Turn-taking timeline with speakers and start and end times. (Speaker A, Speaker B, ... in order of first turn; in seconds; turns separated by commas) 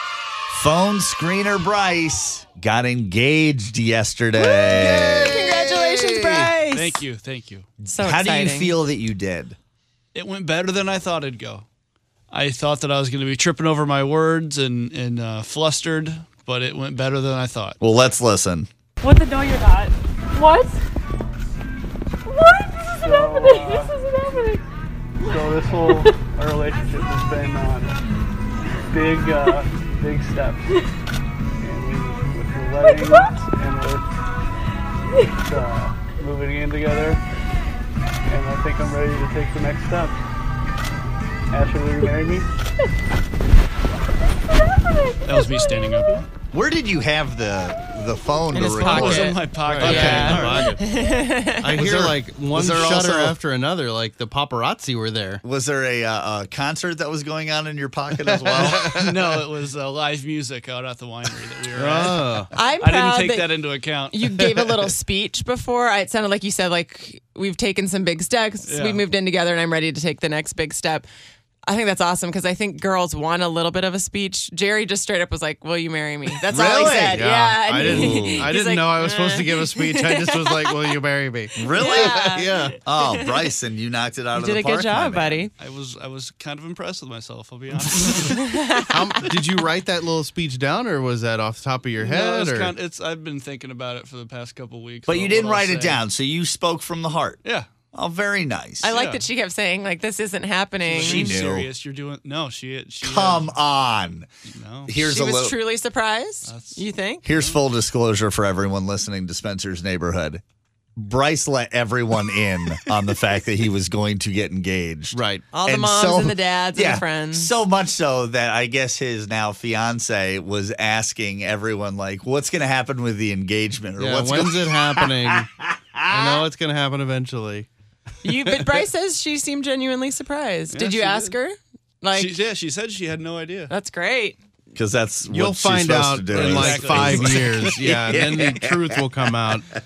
Speaker A: 0.5-6.5, Speaker B: 4.4-7.0, Speaker C: 4.9-5.4, Speaker D: 6.7-7.7, Speaker B: 7.8-8.8, Speaker A: 8.0-9.6, Speaker D: 10.1-11.7, Speaker D: 12.3-17.8, Speaker A: 17.8-18.7, Speaker E: 19.0-19.9, Speaker B: 20.4-20.7, Speaker F: 22.8-23.9, Speaker E: 22.9-24.6, Speaker F: 25.2-28.0, Speaker F: 28.9-30.7, Speaker F: 31.6-34.1, Speaker F: 35.2-37.2, Speaker F: 38.2-40.2, Speaker F: 41.5-42.5, Speaker D: 45.2-46.3, Speaker A: 46.5-50.4, Speaker B: 48.5-51.8, Speaker D: 48.7-50.8, Speaker C: 49.7-50.9, Speaker C: 51.6-55.4, Speaker A: 51.7-53.4, Speaker A: 55.4-58.9, Speaker C: 58.2-59.1, Speaker D: 58.9-64.4, Speaker C: 61.7-62.5, Speaker B: 62.5-63.5, Speaker B: 64.1-71.1, Speaker D: 68.6-69.0, Speaker B: 71.7-80.9, Speaker A: 76.5-77.2, Speaker C: 77.1-82.8, Speaker A: 77.8-78.5, Speaker A: 81.6-85.4, Speaker B: 81.7-83.3, Speaker B: 84.3-85.5, Speaker D: 85.6-89.3, Speaker B: 88.3-89.0, Speaker C: 88.9-92.7, Speaker D: 92.0-96.0, Speaker A: 95.1-97.4, Speaker A: 97.9-98.9, Speaker B: 98.8-101.4, Speaker D: 98.9-99.3, Speaker D: 100.8-103.5, Speaker A: 101.0-101.7, Speaker A: 103.0-104.3, Speaker D: 104.5-105.0, Speaker A: 104.9-105.5, Speaker B: 105.0-107.2, Speaker D: 106.4-107.6, Speaker A: 107.2-110.4, Speaker A: 111.0-126.5, Speaker C: 115.1-115.5, Speaker B: 115.5-117.5, Speaker C: 124.0-125.5, Speaker C: 126.1-127.7, Speaker B: 128.2-132.4, Speaker C: 128.3-128.8, Speaker D: 130.7-131.4, Speaker D: 132.1-133.7, Speaker B: 133.7-134.4, Speaker A: 134.8-139.1, Speaker C: 135.3-139.7, Speaker D: 136.3-138.2